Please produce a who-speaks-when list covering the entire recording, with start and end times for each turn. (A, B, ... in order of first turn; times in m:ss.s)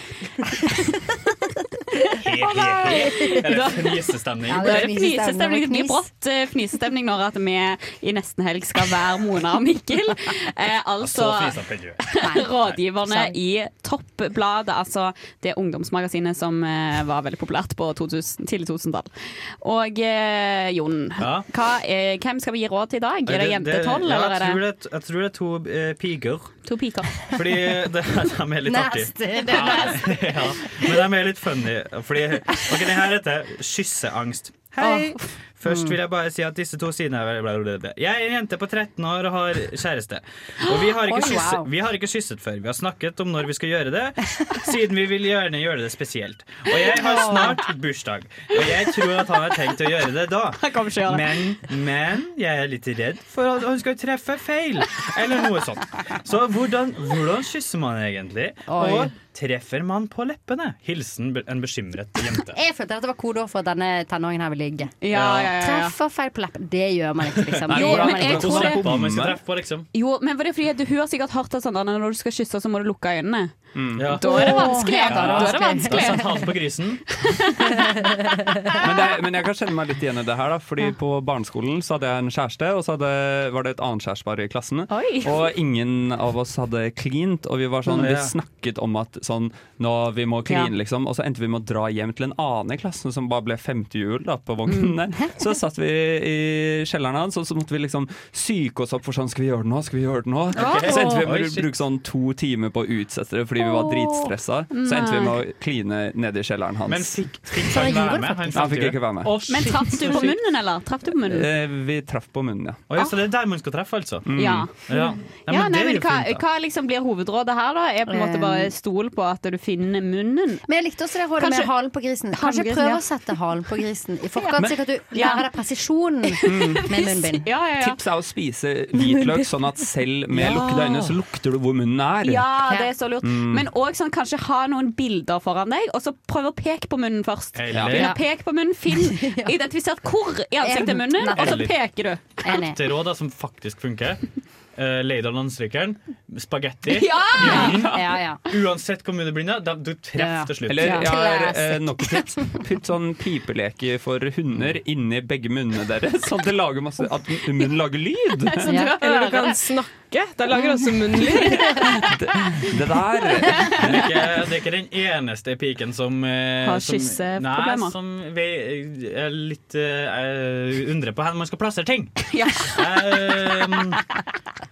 0:02.1-0:04.9 A
0:02.3-0:03.7 B
0:02.8-0:24.6 C
0:04.4-0:06.1 B
0:11.0-0:12.8 A
0:12.2-0:12.5 B
0:13.0-0:13.4 B
0:21.2-0:21.5 A
0:23.3-0:26.6 A
0:26.6-0:27.4 C
0:27.2-1:02.6 A
0:28.6-0:31.0 B
0:29.3-0:30.4 C
0:34.8-0:36.0 B
0:40.7-0:41.7 B
0:46.8-0:47.6 B
0:50.6-0:51.2 C
0:58.7-0:59.1 B
1:02.5-1:08.8 B
1:05.0-1:06.0 C
1:05.1-1:05.6 A
1:07.4-1:09.9 A
1:07.7-1:09.4 D
1:07.7-1:08.8 C
1:09.9-1:17.9 C
1:13.7-1:14.1 D
1:14.0-1:17.2 A
1:14.2-1:16.5 B
1:18.1-1:18.4 B
1:18.8-1:49.5 D
1:24.9-1:25.3 C
1:27.9-1:28.3 A
1:34.7-1:34.9 C
1:40.5-1:41.7 A
1:40.6-1:41.3 C
1:43.7-1:44.3 B
1:44.7-1:45.4 C
1:46.9-1:50.4 A
1:47.7-1:48.8 B
1:49.5-1:51.5 C
1:51.3-1:52.8 D
1:52.9-1:56.4 A
1:54.3-1:54.7 D
1:54.4-2:00.7 C
1:58.1-1:58.7 B
2:00.7-2:07.5 B
2:01.4-2:01.7 C
2:02.3-2:03.0 C
2:04.4-2:05.4 C
2:06.4-2:08.0 C
2:06.4-2:06.9 D
2:07.8-2:12.5 D
2:09.0-2:09.5 B
2:10.3-2:10.9 B
2:10.5-2:10.8 C
2:12.2-2:22.6 C
2:13.2-2:13.7 D
2:17.6-2:18.2 A
2:17.7-2:18.1 D
2:18.9-2:19.6 B
2:20.6-2:22.8 B
2:21.3-2:21.8 A
2:22.4-2:31.0 A
2:26.9-2:28.0 C
2:27.4-2:28.4 B
2:30.2-2:32.6 B
2:30.7-2:38.6 D
2:38.6-2:39.6 C
2:38.6-2:42.1 E
2:38.7-2:39.0 B
2:41.1-2:44.1 D
2:41.5-2:42.1 C
2:43.8-2:54.0 A
2:46.6-2:48.0 C
2:52.3-2:53.6 C